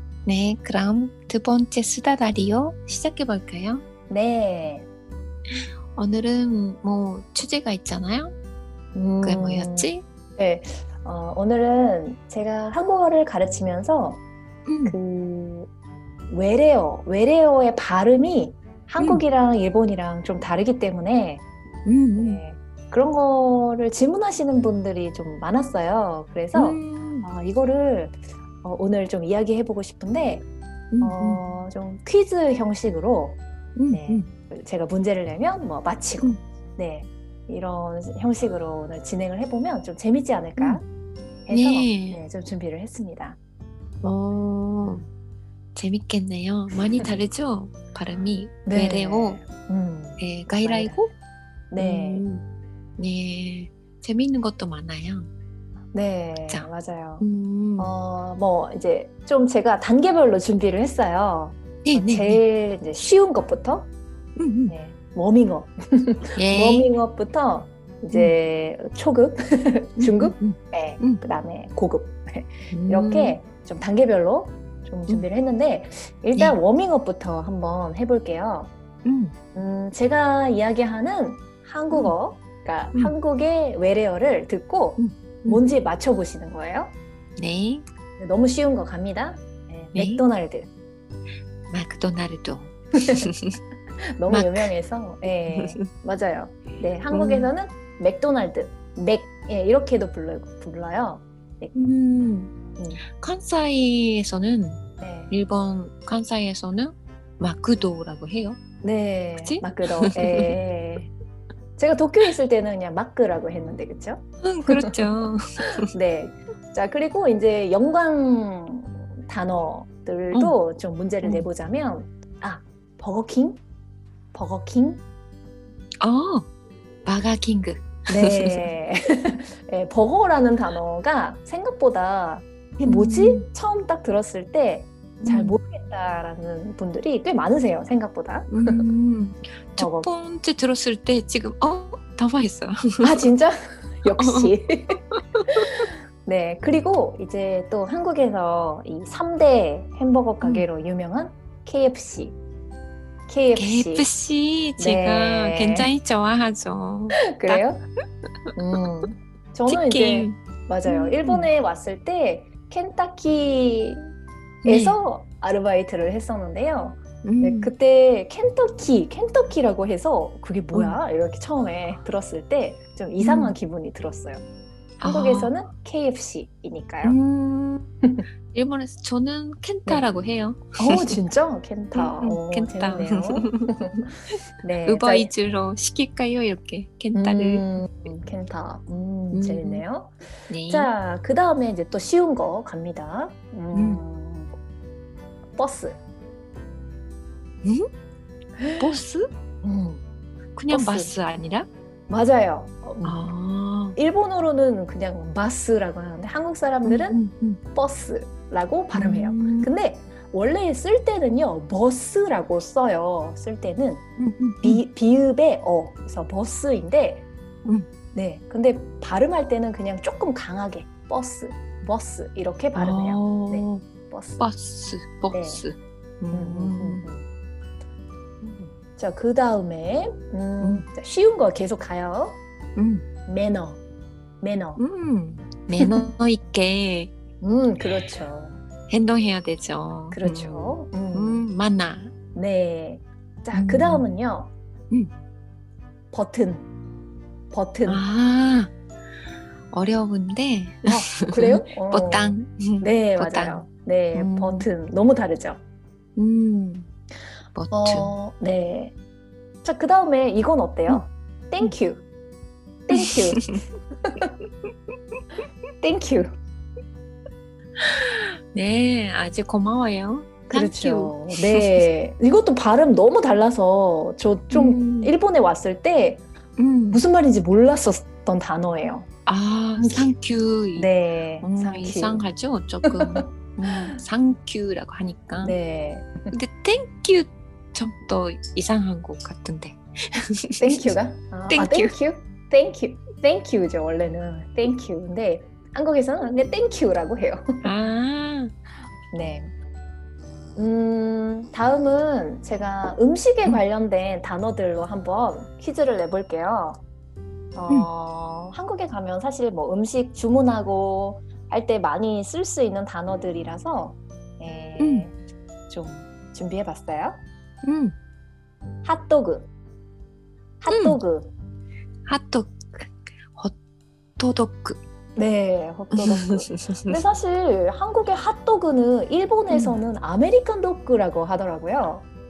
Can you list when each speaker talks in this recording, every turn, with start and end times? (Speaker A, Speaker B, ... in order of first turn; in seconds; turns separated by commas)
Speaker A: 0.2-3.8, Speaker B: 4.1-4.9, Speaker A: 5.9-8.3, Speaker B: 8.9-14.2, Speaker A: 9.2-10.0, Speaker A: 14.7-14.9, Speaker B: 14.8-15.7, Speaker B: 16.3-21.4, Speaker A: 19.0-19.2, Speaker A: 21.9-22.4, Speaker B: 22.2-30.4, Speaker A: 26.5-27.3, Speaker A: 30.9-31.4, Speaker B: 31.0-33.4, Speaker A: 33.8-34.3, Speaker B: 33.9-40.8, Speaker B: 41.5-43.4, Speaker A: 41.5-42.2, Speaker A: 44.0-45.0, Speaker B: 44.8-45.1, Speaker A: 45.7-49.4, Speaker B: 48.6-51.0, Speaker A: 50.2-51.1, Speaker B: 51.7-52.2, Speaker A: 51.8-52.4, Speaker A: 53.0-55.3, Speaker B: 55.9-57.2, Speaker A: 57.2-57.9, Speaker B: 57.8-63.9, Speaker A: 61.8-62.4, Speaker A: 64.4-64.7, Speaker B: 64.7-78.7, Speaker A: 66.3-66.9, Speaker A: 70.0-71.2, Speaker A: 72.7-73.4, Speaker A: 79.0-79.3, Speaker B: 79.5-86.9, Speaker A: 85.0-85.6, Speaker A: 87.4-87.8, Speaker B: 88.2-90.7, Speaker A: 89.9-90.2, Speaker A: 91.7-93.6, Speaker B: 94.2-101.7, Speaker A: 94.3-94.7, Speaker A: 95.5-95.8, Speaker A: 97.1-97.5, Speaker A: 101.7-102.5, Speaker A: 103.1-108.6, Speaker B: 105.0-105.3, Speaker B: 108.8-111.1, Speaker A: 109.4-110.5, Speaker B: 111.8-115.0, Speaker A: 114.4-115.8, Speaker B: 115.9-123.6, Speaker B: 124.3-125.0, Speaker A: 126.0-126.5, Speaker A: 127.0-128.6, Speaker B: 128.1-138.8, Speaker A: 132.8-133.4, Speaker A: 135.2-135.5, Speaker A: 138.5-143.2, Speaker B: 139.8-140.1, Speaker B: 143.0-145.0, Speaker A: 144.2-144.5, Speaker A: 145.1-145.7, Speaker B: 145.6-152.3, Speaker A: 150.4-150.7, Speaker B: 153.3-154.1, Speaker A: 153.5-157.6, Speaker B: 154.8-155.9, Speaker B: 157.3-157.8, Speaker B: 158.6-164.0, Speaker A: 159.7-161.5, Speaker A: 164.6-165.0, Speaker B: 164.6-174.4, Speaker A: 167.2-167.7, Speaker A: 170.7-171.0, Speaker A: 173.2-173.5, Speaker A: 175.0-175.5, Speaker B: 175.0-177.2, Speaker A: 177.0-177.9, Speaker A: 178.5-181.2, Speaker B: 180.8-183.9, Speaker A: 181.9-184.1, Speaker B: 184.6-185.3, Speaker A: 184.8-187.7, Speaker B: 187.1-190.2, Speaker A: 189.3-189.8, Speaker A: 190.5-190.9, Speaker B: 190.7-194.5, Speaker A: 193.7-194.0, Speaker B: 195.6-196.0, Speaker B: 198.6-198.8, Speaker A: 198.8-199.3, Speaker B: 199.6-200.0, Speaker A: 200.6-201.7, Speaker B: 200.7-201.1, Speaker B: 202.1-203.2, Speaker A: 203.0-203.9, Speaker B: 203.9-207.2, Speaker A: 206.8-207.6, Speaker B: 207.7-214.0, Speaker A: 208.9-209.7, Speaker A: 214.2-214.8, Speaker B: 214.6-217.2, Speaker B: 218.1-224.4, Speaker A: 222.7-223.8, Speaker A: 224.4-227.0, Speaker B: 225.3-225.6, Speaker B: 226.3-227.2, Speaker B: 228.7-232.4, Speaker A: 230.6-230.8, Speaker A: 232.8-233.1, Speaker B: 233.3-233.8, Speaker B: 234.4-234.8, Speaker A: 234.8-237.1, Speaker B: 235.8-236.1, Speaker B: 237.4-238.6, Speaker A: 238.9-242.1, Speaker B: 240.1-241.4, Speaker B: 242.3-244.5, Speaker A: 243.5-244.1, Speaker B: 246.1-246.7, Speaker B: 247.5-248.0, Speaker A: 247.8-248.7, Speaker A: 249.7-254.7, Speaker B: 250.9-255.6, Speaker A: 256.1-256.9, Speaker A: 257.5-258.1, Speaker B: 257.7-258.9, Speaker B: 259.6-262.0, Speaker B: 262.9-264.3, Speaker A: 262.9-263.6, Speaker B: 265.8-266.3, Speaker A: 267.8-271.8, Speaker B: 270.5-276.2, Speaker A: 274.5-275.1, Speaker A: 276.6-277.0, Speaker B: 276.9-279.1, Speaker A: 279.2-280.9, Speaker B: 279.8-280.1, Speaker B: 280.8-282.2, Speaker A: 281.4-285.6, Speaker B: 282.9-283.9, Speaker B: 285.4-286.3, Speaker A: 286.3-290.8, Speaker B: 290.6-297.4, Speaker A: 291.5-291.9, Speaker A: 297.6-298.5, Speaker B: 299.1-299.5, Speaker B: 300.6-306.8, Speaker B: 307.6-315.1, Speaker A: 314.8-315.1, Speaker B: 315.7-317.2, Speaker A: 317.6-317.9, Speaker B: 318.8-319.5, Speaker B: 320.6-321.3, Speaker A: 320.7-321.0, Speaker A: 322.1-323.5, Speaker A: 324.2-324.8, Speaker B: 325.1-332.0, Speaker A: 325.9-326.9, Speaker A: 329.5-329.8